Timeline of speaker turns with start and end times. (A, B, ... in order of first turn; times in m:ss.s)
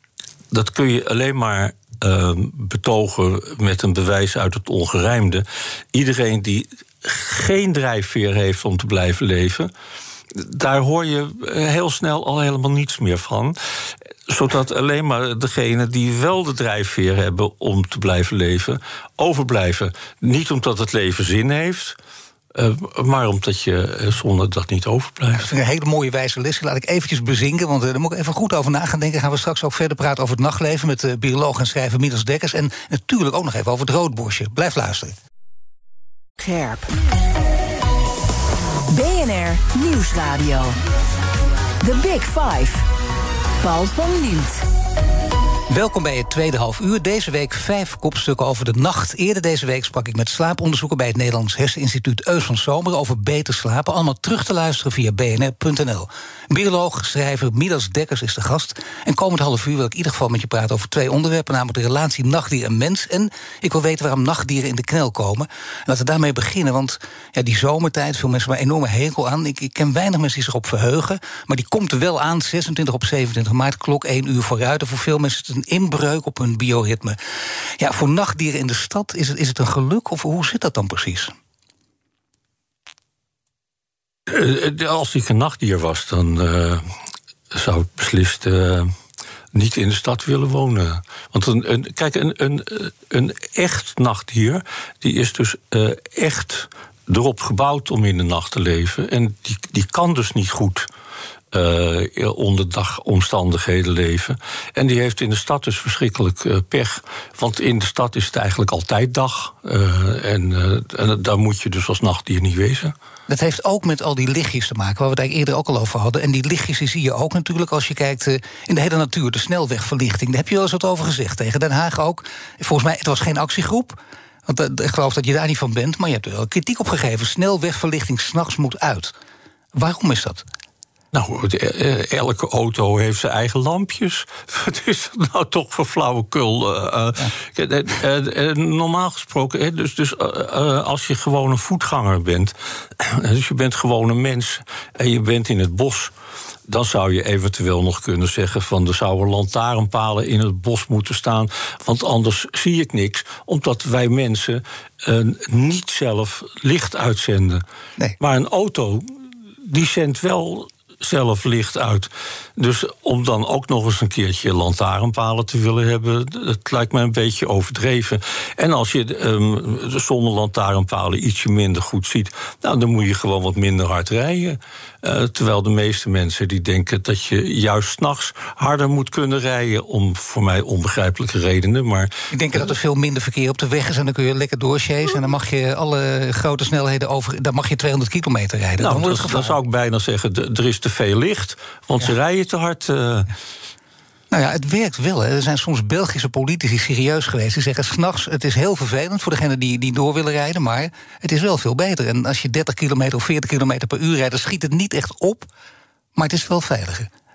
0:00.5-0:09.7 A
0:10.3-0:13.6 A
0:14.3-0:22.0 A
0:22.5-0:25.5 A
0:25.4-0:35.1 B
0:36.4-0:36.9 C
0:38.9-0:40.8 C
0:41.8-0:42.8 C
0:43.6-0:44.6 C
0:45.7-1:17.2 B
1:17.8-1:21.3 B
1:24.3-1:26.9 A
1:27.5-1:28.9 A
1:29.5-1:40.9 A
1:41.5-1:52.9 A
1:53.3-2:09.1 B
2:09.7-2:10.4 B
2:11.1-2:26.1 A
2:26.7-2:37.6 A
2:38.2-2:39.1 A
2:39.6-3:02.1 A
3:02.3-3:09.6 B
3:08.8-3:13.3 A
3:14.3-3:25.5 B
3:26.2-3:27.1 B